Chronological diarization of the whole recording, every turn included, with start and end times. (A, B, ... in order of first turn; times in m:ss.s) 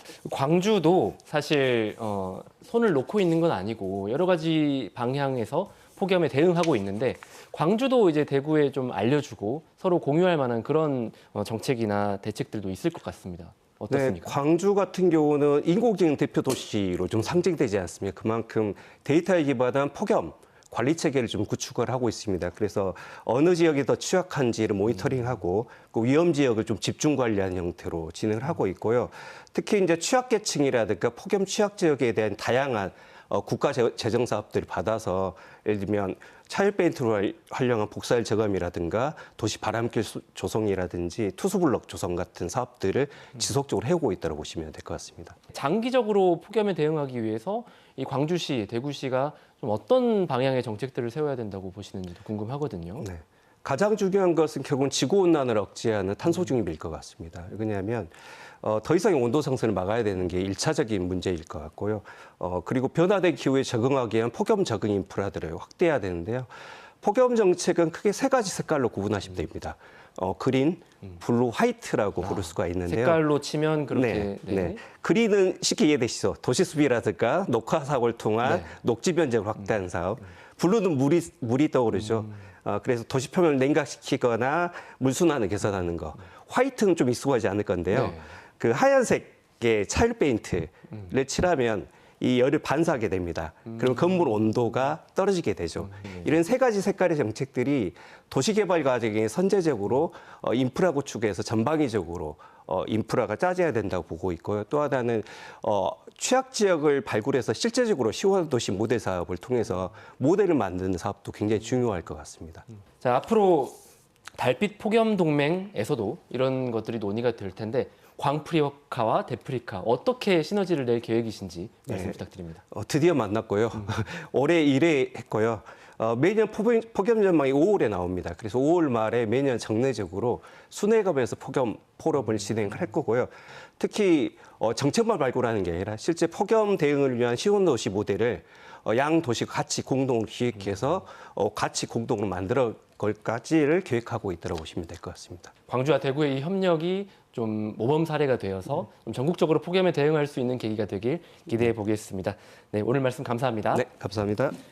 0:00.2-0:14.4 A
0:13.9-0:45.4 B
0:45.5-0:53.1 A
0:53.0-1:06.5 B
1:07.0-1:13.2 B
1:12.2-1:14.8 A
1:13.9-1:52.6 B
1:18.4-1:18.7 A
1:27.9-1:28.3 A
1:53.0-1:53.8 A
1:54.4-2:02.6 A
2:01.9-2:02.2 B
2:02.7-2:25.5 B
2:25.7-2:33.9 A
2:33.7-2:34.6 B